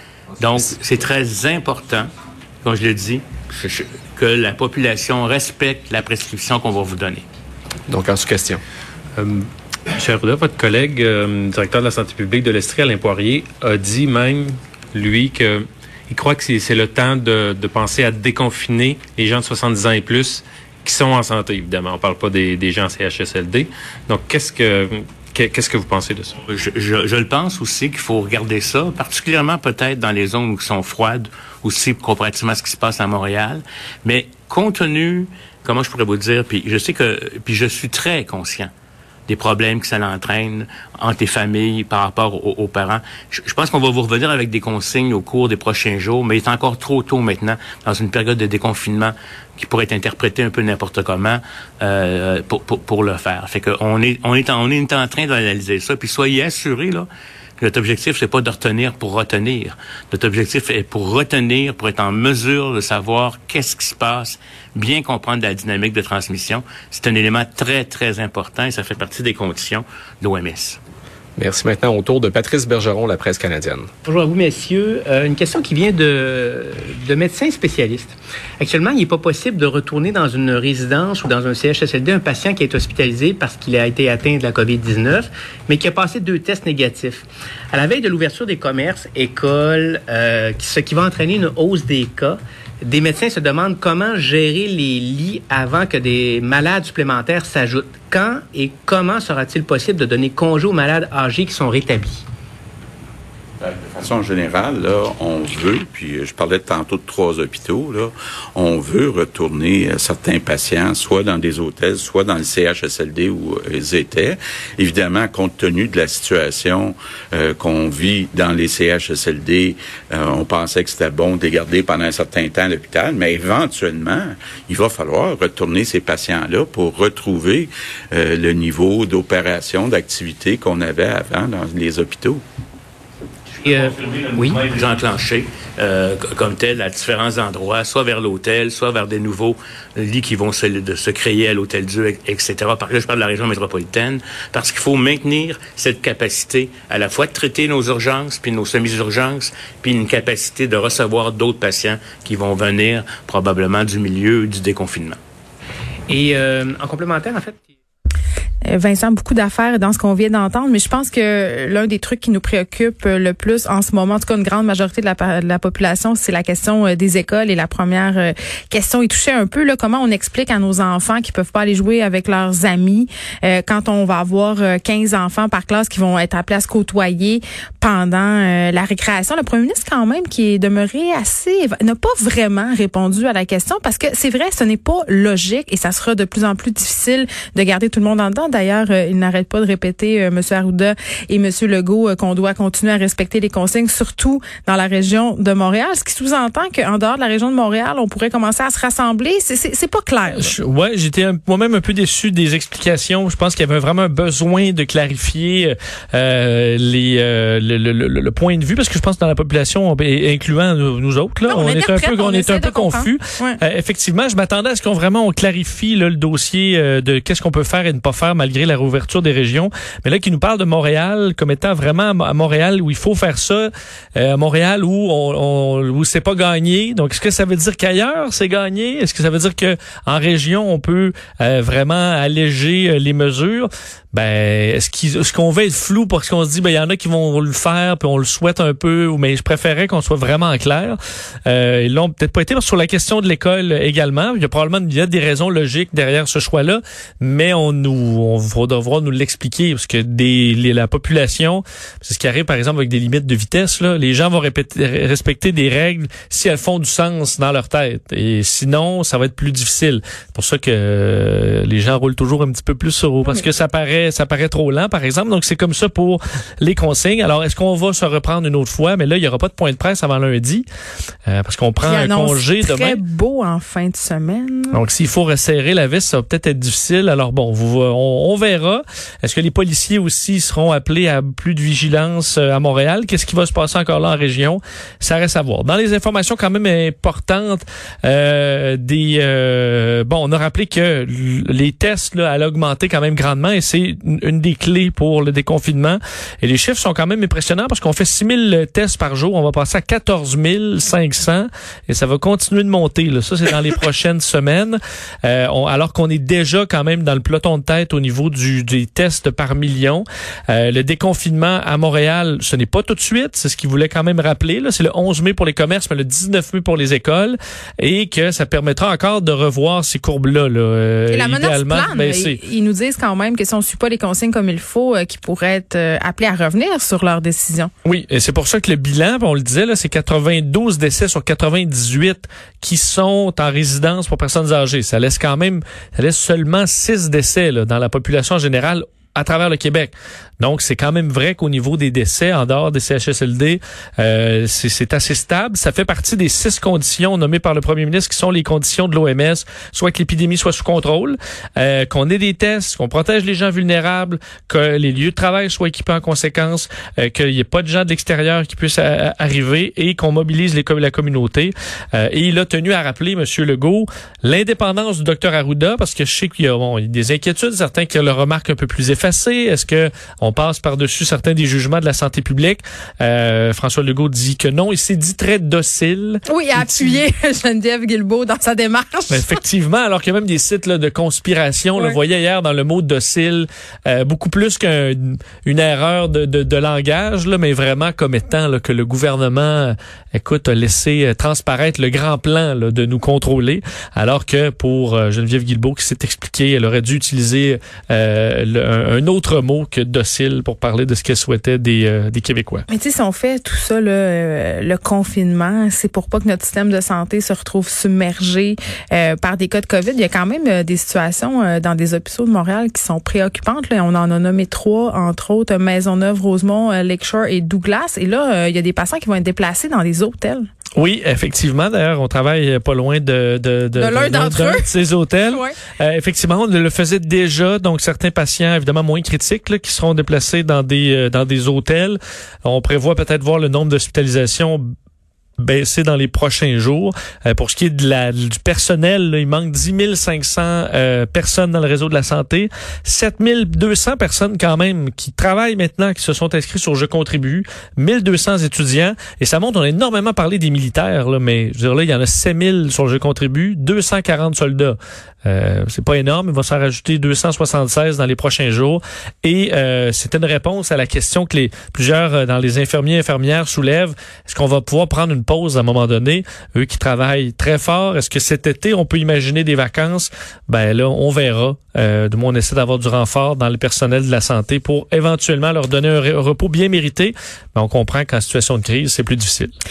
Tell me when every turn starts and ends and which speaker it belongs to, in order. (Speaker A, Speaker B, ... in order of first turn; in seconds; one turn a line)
Speaker A: 0.4-2.1
Speaker A: 2.6-7.2
Speaker B: 7.9-8.6
Speaker C: 9.2-26.3
Speaker A: 26.4-38.7
Speaker A: 39.3-57.1
Speaker A: 57.6-70.8
Speaker B: 71.4-73.9
Speaker D: 74.0-102.2
Speaker E: 103.6-132.4
Speaker A: 133.6-155.2
Speaker D: 156.1-157.6
Speaker F: 158.7-200.5
Speaker G: 200.3-270.6
Speaker F: 211.5-213.6
Speaker G: 271.3-273.0
Speaker F: 271.8-274.8
Speaker G: 274.7-322.4
Speaker F: 321.1-327.7
Speaker G: 327.8-377.0
Speaker F: 376.3-379.4
Speaker G: 379.1-402.6
Speaker F: 402.7-420.4
Speaker G: 420.8-434.6
Speaker F: 423.8-424.7
Speaker G: 435.4-479.5